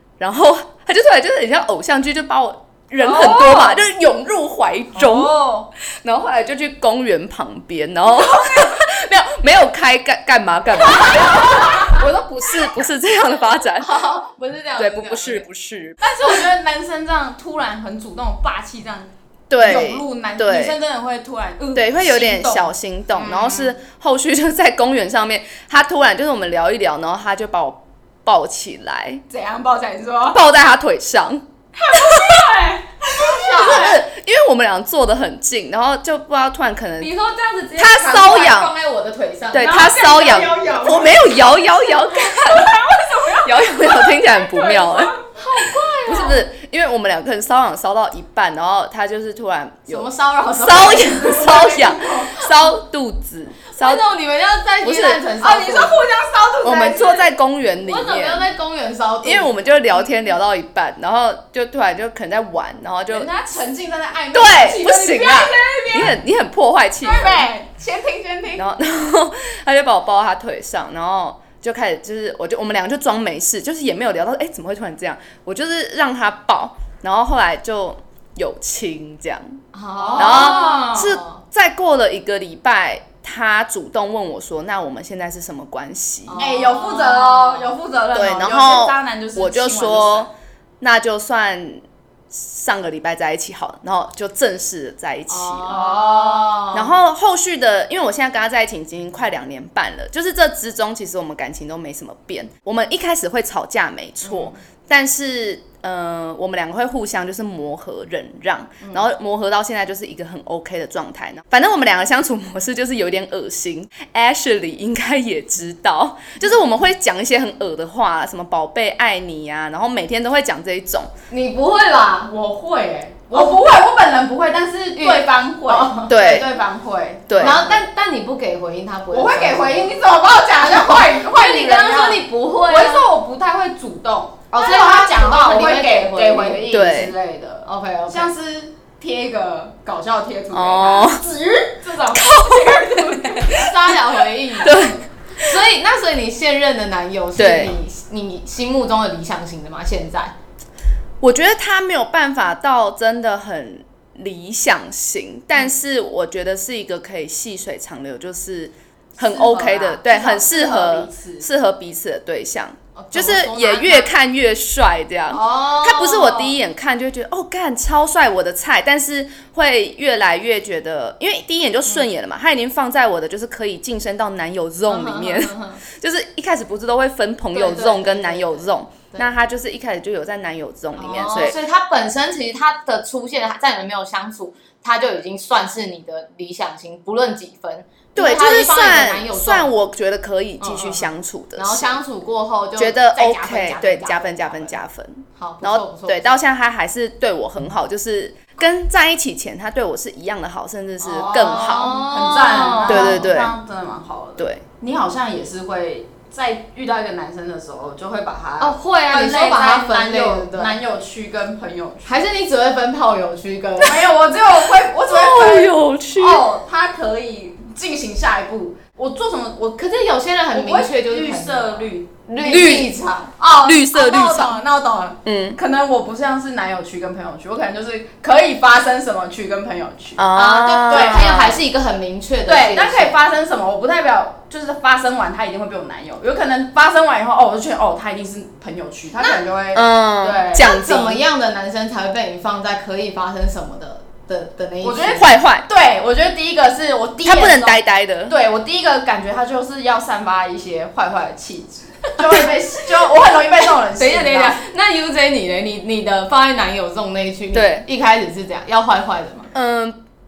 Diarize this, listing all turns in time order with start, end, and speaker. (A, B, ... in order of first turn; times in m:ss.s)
0:00.2-0:05.4 A
0:03.0-0:03.8 B
0:05.0-0:05.7 B
0:06.0-0:14.0 A
0:08.2-0:08.8 B
0:11.0-0:11.7 B
0:13.8-0:15.5 C
0:14.8-0:16.4 A
0:16.0-0:23.7 B
0:19.5-0:20.8 A
0:21.8-0:29.2 A
0:29.3-0:30.4 B
0:30.3-0:32.5 A
0:31.8-0:34.0 B
0:33.1-0:34.0 C
0:33.5-0:37.1 A
0:37.0-0:41.2 C
0:37.8-0:38.7 A
0:39.5-0:45.1 A
0:39.6-0:41.2 B
0:42.4-0:45.2 B
0:45.4-0:46.4 C
0:46.1-0:54.0 A
0:49.9-0:52.0 C
0:51.2-0:52.4 B
0:53.7-0:56.0 C
0:54.8-0:55.2 A
0:55.4-0:57.3 B
0:56.6-0:58.5 A
0:57.8-1:00.0 C
0:59.2-1:03.3 A
1:03.1-1:06.1 B
1:04.3-1:07.5 A
1:07.0-1:08.6 B
1:08.6-1:19.6 A
1:19.7-1:21.4 C
1:20.0-1:21.1 B
1:20.2-1:26.4 A
1:26.3-1:27.7 C
1:26.4-1:30.3 B
1:28.1-1:30.3 A
1:30.8-1:35.8 A
1:35.3-1:36.9 C
1:35.7-1:36.7 B
1:36.7-2:01.1 A
1:44.2-1:44.6 C
2:01.3-2:03.6 C
2:03.3-2:07.8 B
2:05.0-2:06.1 C
2:06.1-2:06.6 A
2:07.3-2:07.6 A
2:07.4-2:10.0 C
2:09.1-2:23.7 B
2:10.6-2:13.1 C
2:14.5-2:16.7 C
2:16.7-2:17.1 A
2:17.6-2:18.3 C
2:20.5-2:21.2 A
2:23.5-2:30.3 C
2:24.6-2:25.5 A
2:27.4-2:27.7 A
2:31.2-3:01.6 A
2:39.3-2:40.0 C
2:39.7-2:41.5 B
2:43.0-2:44.1 C
2:45.3-2:46.6 C
2:54.9-2:55.8 C
2:57.5-2:59.3 C
3:01.0-3:09.7 C
3:08.2-3:12.0 A
3:10.6-3:14.8 C
3:12.8-3:22.0 A
3:15.4-3:16.4 C
3:21.0-3:32.2 B
3:21.2-3:23.3 C
3:22.9-3:23.6 A
3:28.6-3:30.8 C
3:32.0-3:34.0 C
3:33.8-3:39.8 B
3:35.1-3:36.4 A
3:39.8-3:43.4 C
3:40.5-3:42.9 B
3:42.5-3:42.9 A
3:43.4-3:50.3 B
3:43.5-3:44.6 A
3:45.2-3:45.6 A
3:50.2-3:51.6 A
3:50.4-3:53.1 C
3:50.9-3:51.4 B
3:52.5-4:00.7 B
3:59.7-4:01.2 A
4:00.5-4:05.3 C
4:04.8-4:14.6 B
4:05.1-4:05.7 A
4:07.2-4:08.4 A
4:12.1-4:12.5 C
4:13.8-4:19.5 C
4:17.5-4:17.8 A
4:19.5-4:20.0 A